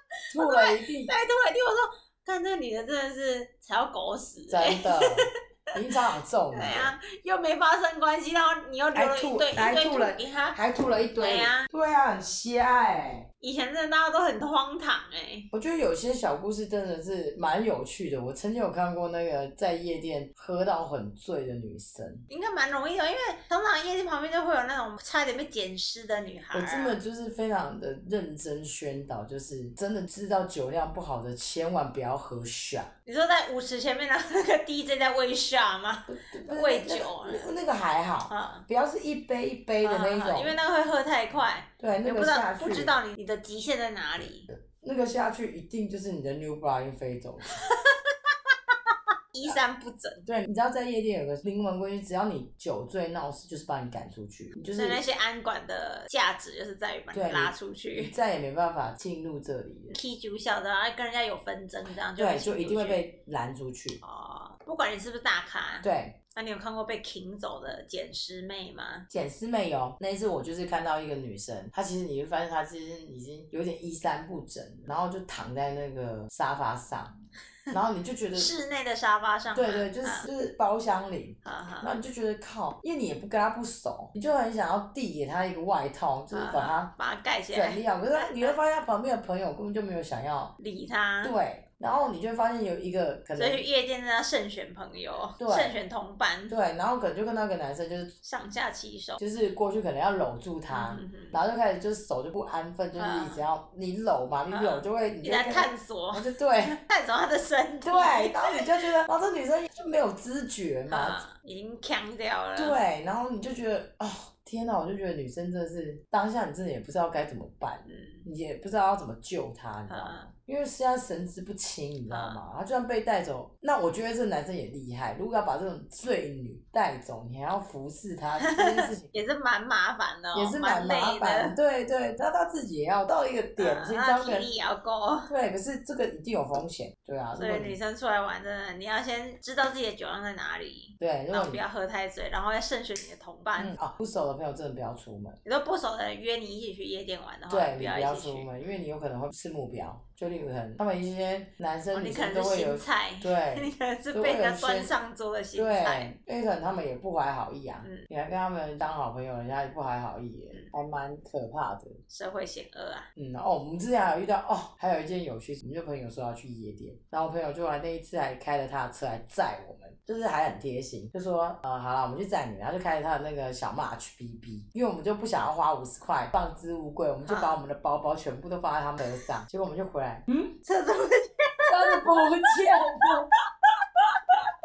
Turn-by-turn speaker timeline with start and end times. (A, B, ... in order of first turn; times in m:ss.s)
0:00.3-0:01.1 A
0:00.4-0:05.2 B
0:04.5-0:06.9 A
0:06.5-0:10.6 B
0:08.9-0:13.2 A
0:11.2-0:11.7 B
0:13.4-0:15.5 B
0:15.5-0:22.2 A
0:22.3-0:27.0 B
0:26.5-0:32.9 A
0:33.0-0:37.5 B
0:36.1-0:40.6 A
0:38.3-0:38.6 B
0:39.8-0:44.5 B
0:41.8-0:43.0 A
0:44.5-0:47.7 A
0:47.5-0:50.2 B
0:50.2-0:55.0 A
0:54.7-0:58.1 B
0:57.1-1:00.0 A
0:59.9-1:03.0 B
1:02.2-1:04.0 A
1:04.0-1:09.0 B
1:05.8-1:06.2 A
1:09.1-1:17.1 A
1:17.7-1:18.5 A
1:18.3-1:20.3 B
1:19.5-1:26.9 A
1:21.4-1:22.0 B
1:26.3-1:28.6 B
1:27.5-1:30.5 A
1:30.6-1:31.3 B
1:31.2-1:33.6 A
1:33.4-1:36.5 B
1:35.4-1:35.7 A
1:36.5-1:38.1 A
1:38.2-1:39.2 B
1:39.2-1:46.8 A
1:40.7-1:41.4 B
1:43.0-1:43.4 B
1:44.5-1:48.9 B
1:47.8-1:51.2 A
1:50.9-1:52.8 B
1:52.6-2:09.2 A
1:57.8-1:58.2 B
1:59.9-2:00.3 B
2:02.1-2:02.4 B
2:08.4-2:11.5 B
2:10.3-2:14.5 A
2:13.6-2:15.3 B
2:15.3-2:17.8 A
2:17.3-2:23.7 B
2:21.0-2:21.6 A
2:23.6-2:25.4 A
2:25.4-2:28.5 B
2:27.5-2:34.9 A
2:31.9-2:36.2 B
2:35.5-2:42.0 A
2:37.8-2:38.1 B
2:42.1-2:43.1 B
2:43.2-3:00.5 A
2:57.2-2:57.6 B
3:00.6-3:03.1 B
3:01.6-3:03.3 A
3:03.6-3:04.5 B